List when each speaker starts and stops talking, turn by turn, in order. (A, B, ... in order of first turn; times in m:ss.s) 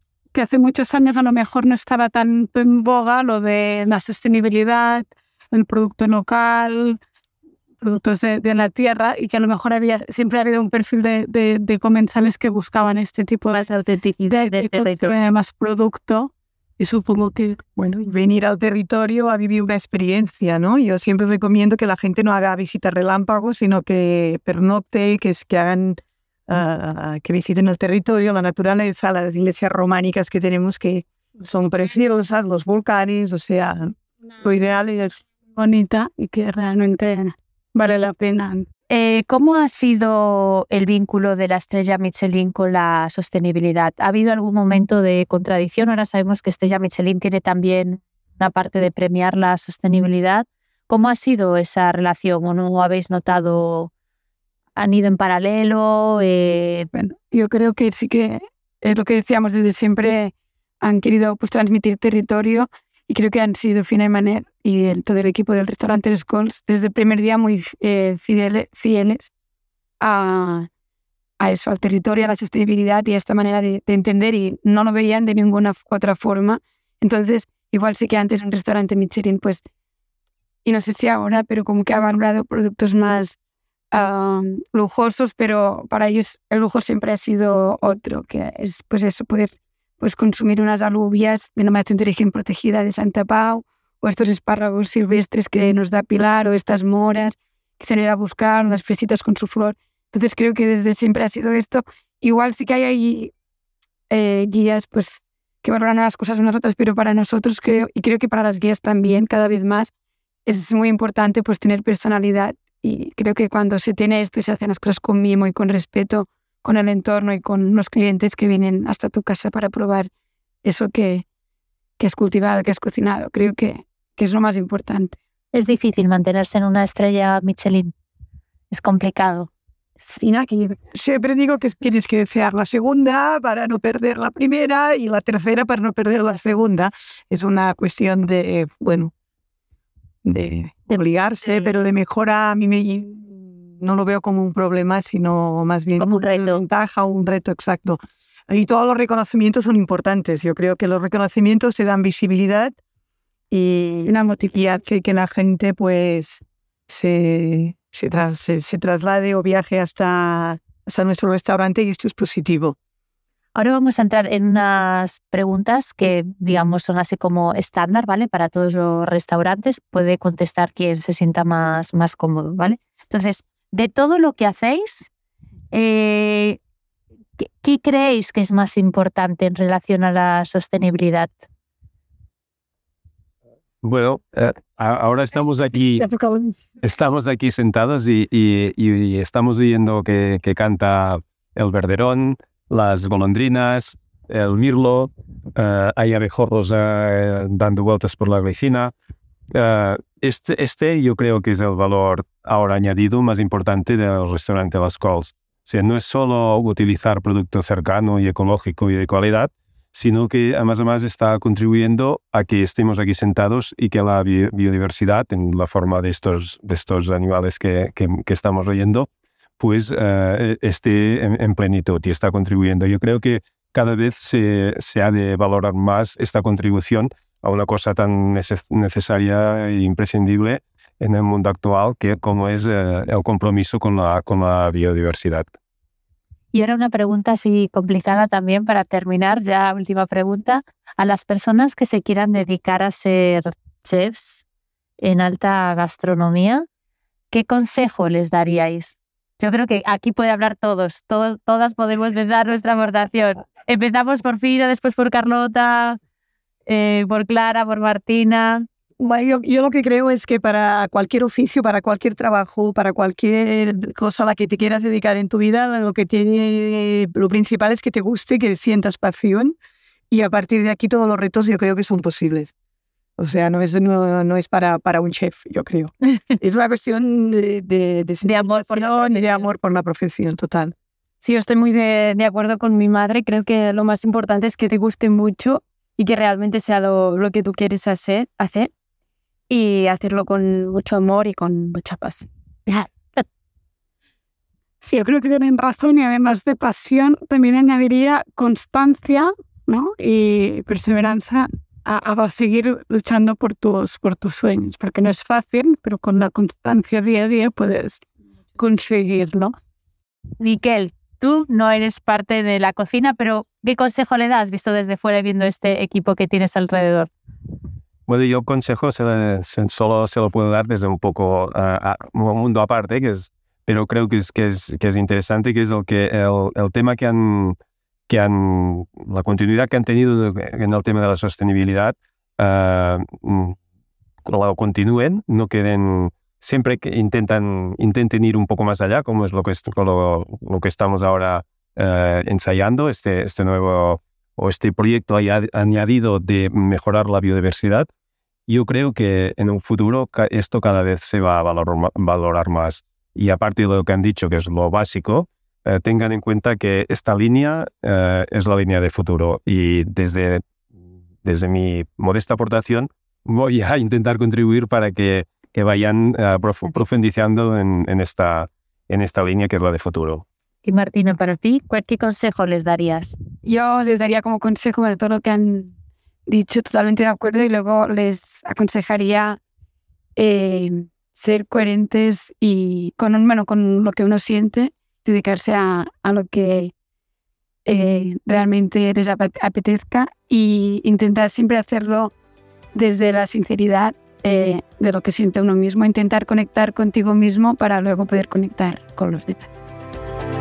0:00.3-0:07.0 A
0:07.8-0:13.6 A
0:13.5-0:15.1 B
0:14.2-0:17.6 A
0:17.8-0:35.2 C
0:35.5-0:38.7 A
0:38.9-0:53.9 B
0:54.8-0:56.9 B
0:56.9-1:09.3 D
1:10.0-1:10.7 D
1:11.4-1:19.6 D
1:20.6-1:23.4 D
1:23.9-1:43.3 D
1:44.1-1:49.9 D
1:50.5-2:00.1 D
2:00.6-2:01.2 D
2:02.0-2:05.2 D
2:05.5-2:07.9 B
2:08.7-2:09.5 B
2:10.0-2:10.8 D
2:10.9-2:19.1 C
2:20.2-2:32.8 C
2:20.9-2:21.7 B
2:26.0-2:26.6 B
2:33.5-2:42.8 C
2:34.1-2:34.5 A
2:43.6-2:55.1 B
2:55.7-2:56.6 B
2:57.4-3:01.3 B
3:03.8-3:06.1 E
3:06.0-3:06.6 A
3:06.8-3:18.9 E
3:19.5-3:39.1 E
3:39.6-3:55.5 E
3:56.5-4:04.4 B
4:05.0-4:06.7 B
4:07.3-4:16.0 B
4:16.7-4:18.7 B
4:19.0-4:29.6 C
4:30.1-4:32.5 C
4:33.2-4:40.8 C
4:38.2-4:39.5 B
4:41.2-4:48.7 F
4:49.5-4:52.8 F
4:54.8-5:08.0 A
5:08.6-5:09.6 A
5:10.4-5:17.1 B
5:18.1-5:27.6 E
5:28.1-5:33.6 E
5:34.2-5:47.9 E
5:48.5-6:00.4 E
6:01.2-6:10.2 E
6:10.6-6:13.2 B
6:13.4-6:15.7 D
6:16.3-6:19.4 D
6:20.2-6:26.7 D
6:27.7-6:32.1 D
6:32.7-6:39.5 D